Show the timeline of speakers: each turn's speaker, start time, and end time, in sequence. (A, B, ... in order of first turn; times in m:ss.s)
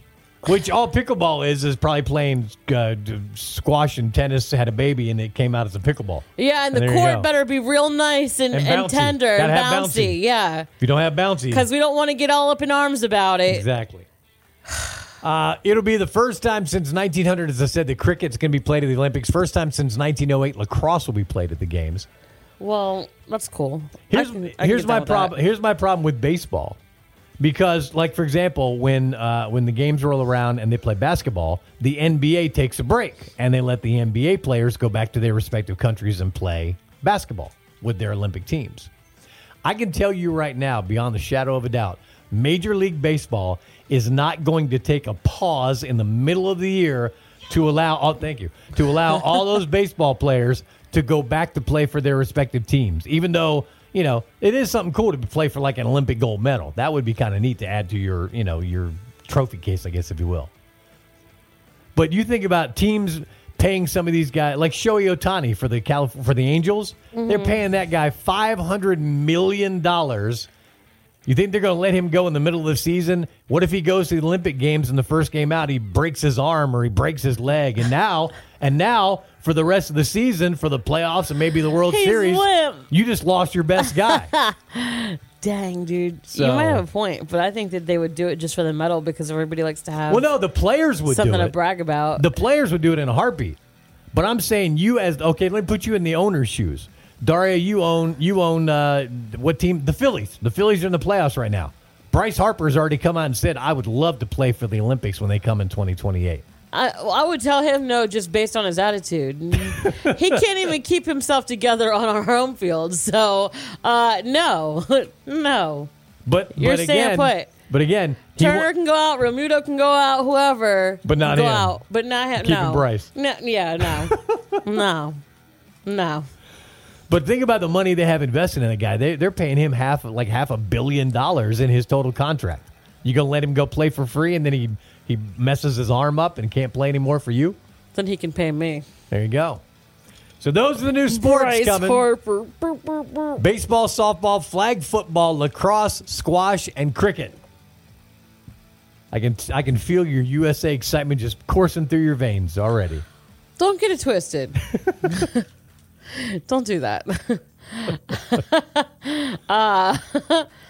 0:00.4-0:07.3 A
0:06.4-0:10.7 B
0:08.5-0:10.2 A
0:10.8-0:11.7 A
0:11.5-0:13.7 B
0:13.5-0:14.1 A
0:15.2-0:22.1 A
0:22.6-0:25.4 B
0:24.1-0:26.8 A
0:27.4-0:38.9 A
0:39.6-1:00.5 A
1:02.0-1:10.5 A
1:07.1-1:07.6 B
1:11.3-1:24.3 A
1:21.8-1:22.9 B
1:23.8-1:30.3 B
1:26.3-1:26.8 A
1:30.1-1:31.6 A
1:31.0-1:32.3 B
1:32.2-1:33.6 A
1:34.1-1:46.4 A
1:46.7-1:55.9 B
1:49.6-1:50.4 A
1:56.3-1:58.7 A
1:56.5-1:57.5 B
1:58.4-2:05.2 B
2:01.0-2:01.8 A
2:02.4-2:03.1 A
2:03.8-2:04.2 A
2:05.8-2:06.3 B
2:07.1-2:17.6 A
2:17.9-2:18.8 B
2:19.1-2:19.6 A
2:20.4-2:22.1 A
2:21.1-2:23.4 B
2:23.4-2:27.4 A
2:29.1-2:33.0 A
2:33.6-2:35.4 B
2:36.1-2:40.5 B